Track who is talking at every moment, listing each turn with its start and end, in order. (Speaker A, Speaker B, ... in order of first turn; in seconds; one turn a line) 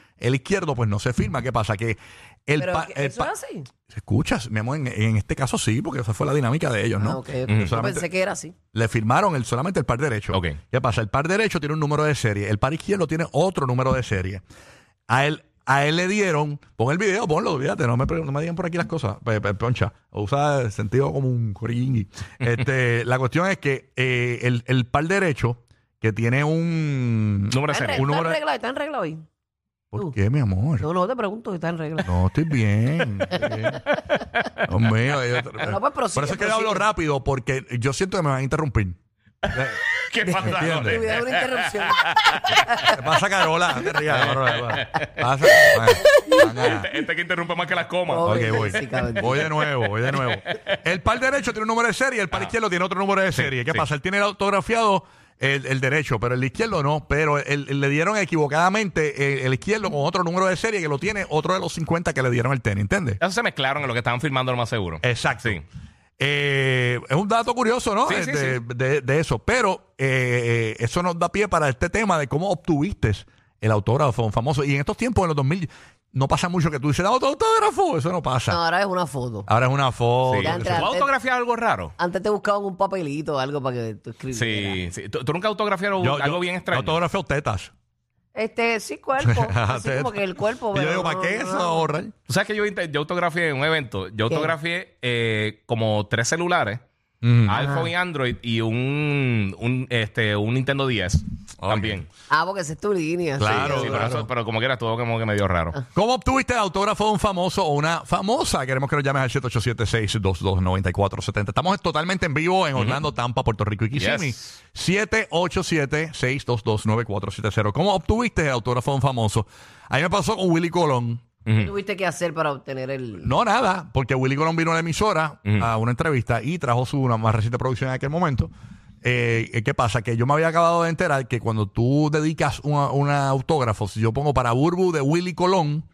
Speaker A: 0.2-3.3
Speaker B: 2.6-3.7
Speaker A: 3.9-8.1
Speaker B: 7.0-8.6
Speaker C: 7.5-7.8
Speaker A: 8.7-14.4
Speaker C: 10.3-10.6
Speaker A: 15.1-28.4
Speaker C: 27.5-28.1
Speaker B: 27.7-29.2
Speaker A: 29.9-30.9
Speaker B: 30.8-32.1
Speaker A: 32.0-33.8
Speaker C: 33.7-34.6
Speaker A: 34.6-39.0
Speaker B: 35.6-36.9
Speaker C: 39.4-42.5
Speaker A: 39.5-39.8
Speaker B: 40.2-43.1
Speaker A: 40.4-41.0
Speaker A: 42.9-46.9
Speaker C: 44.1-50.7
Speaker B: 46.3-46.8
Speaker B: 48.1-49.5
Speaker A: 48.2-63.2
Speaker C: 53.3-53.9
Speaker C: 63.2-65.6
Speaker A: 65.0-65.6
Speaker A: 66.2-78.6
Speaker C: 68.0-68.6
Speaker B: 78.5-79.5
Speaker A: 79.5-80.9
Speaker C: 80.2-81.9
Speaker B: 80.4-81.1
Speaker B: 82.0-84.8
Speaker C: 84.3-87.0
Speaker A: 86.0-87.7
Speaker B: 88.3-91.9
Speaker A: 89.2-92.1
Speaker C: 92.3-96.8
Speaker B: 94.3-94.5
Speaker A: 97.2-97.6
Speaker C: 97.4-102.1
Speaker B: 97.5-97.9
Speaker A: 101.6-102.0
Speaker B: 102.3-104.3
Speaker A: 103.4-104.3
Speaker C: 103.4-105.8
Speaker A: 105.9-121.2
Speaker C: 112.7-113.0
Speaker C: 113.9-114.4
Speaker C: 121.5-121.7
Speaker B: 121.6-123.3
Speaker A: 123.2-128.5
Speaker A: 129.0-135.8